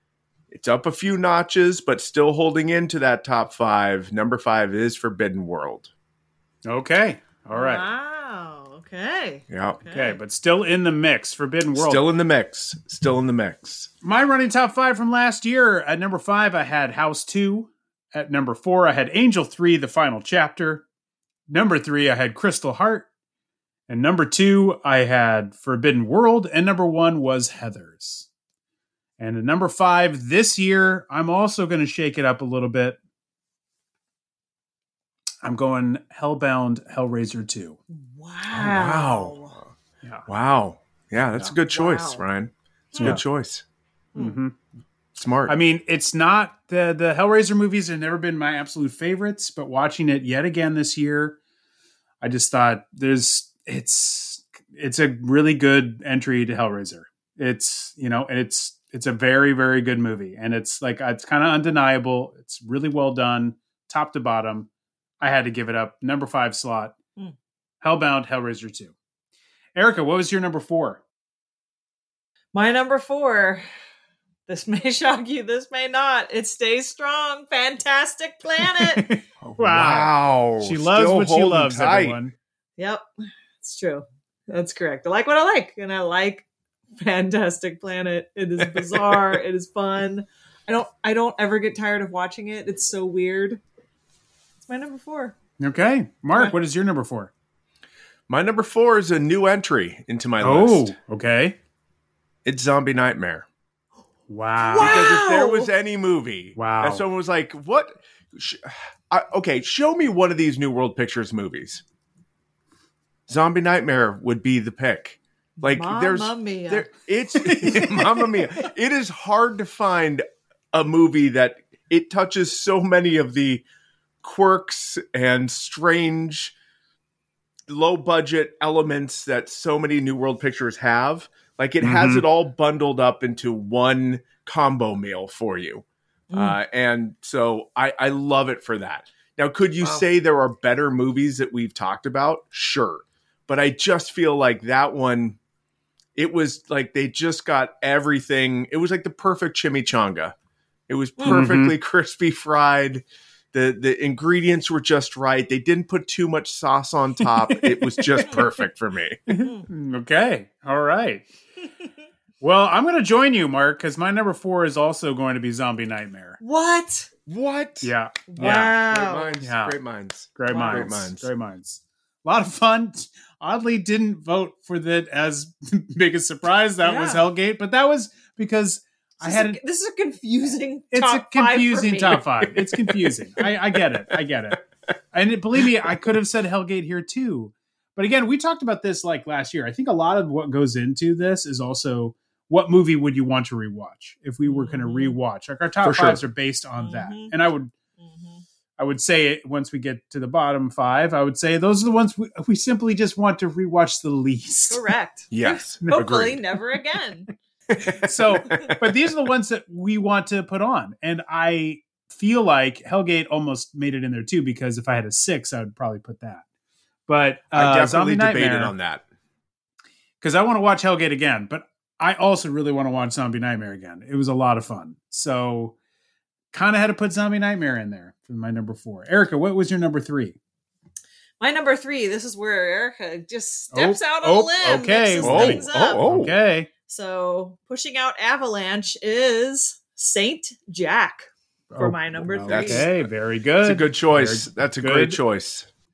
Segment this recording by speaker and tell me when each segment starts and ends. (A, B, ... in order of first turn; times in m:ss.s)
0:00.5-0:05.9 A
0:06.7-0:07.9 B
0:07.5-0:10.2 C
0:09.5-0:09.8 A
0:09.9-0:12.1 B
0:11.7-0:13.9 A
0:14.0-0:20.8 B
0:21.5-0:23.1 B
0:23.9-0:28.3 B
0:29.2-0:33.0 B
0:35.4-0:37.8 B
0:37.9-0:39.6 C
0:38.5-0:39.7 A
0:40.3-0:43.6 A
0:41.6-0:42.2 C
0:42.9-0:43.2 C
0:43.0-0:43.2 B
0:44.2-0:44.6 B
0:45.2-0:45.6 A
0:45.5-0:51.4 B
0:52.2-1:04.7 B
1:05.2-1:07.0 B
1:07.8-1:08.9 B
1:09.8-1:11.0 B
1:12.5-1:13.7 C
1:14.5-1:19.1 C
1:18.7-1:22.3 B
1:19.6-1:22.2 A
1:22.8-1:23.1 C
1:23.6-1:33.6 C
1:34.7-1:35.4 C
1:35.6-1:37.3 B
1:38.3-1:41.0 A
1:40.4-1:41.6 B
1:42.4-1:43.5 A
1:44.3-1:45.2 B
1:44.6-1:45.7 C
1:44.8-1:51.8 A
1:46.6-1:47.0 B
1:53.3-2:03.6 A
1:55.6-1:57.0 C
1:57.4-1:58.0 B
2:04.2-2:06.6 A
2:07.7-2:25.4 A
2:11.8-2:12.2 B
2:16.3-2:16.6 C
2:26.2-2:30.4 A
2:30.9-2:39.2 A
2:31.2-2:31.5 C
2:31.2-2:31.8 B
2:37.2-2:38.4 B
2:39.3-2:41.3 B
2:42.4-2:46.4 B
2:46.4-2:47.1 C
2:47.3-2:51.3 A
2:47.8-2:48.8 B
2:48.3-2:49.3 C
2:49.4-2:49.8 B
2:50.4-2:59.6 B
2:50.5-2:51.0 C
2:56.8-2:57.2 C
2:59.2-3:02.2 C
3:00.9-3:17.7 B
3:02.3-3:02.6 A
3:14.4-3:15.2 C
3:15.8-3:16.2 A
3:16.8-3:17.4 C
3:18.0-3:18.4 C
3:18.8-3:24.8 B
3:24.7-3:27.3 C
3:25.3-3:26.4 A
3:28.0-3:36.4 B
3:37.1-3:38.7 B
3:37.5-3:39.0 A
3:40.2-3:45.8 B
3:46.5-3:50.4 B
3:51.4-3:56.1 C
3:53.7-3:56.7 B
3:55.2-3:56.4 A
3:56.8-4:02.9 C
4:01.7-4:05.2 B
4:02.5-4:03.1 A
4:03.6-4:05.7 A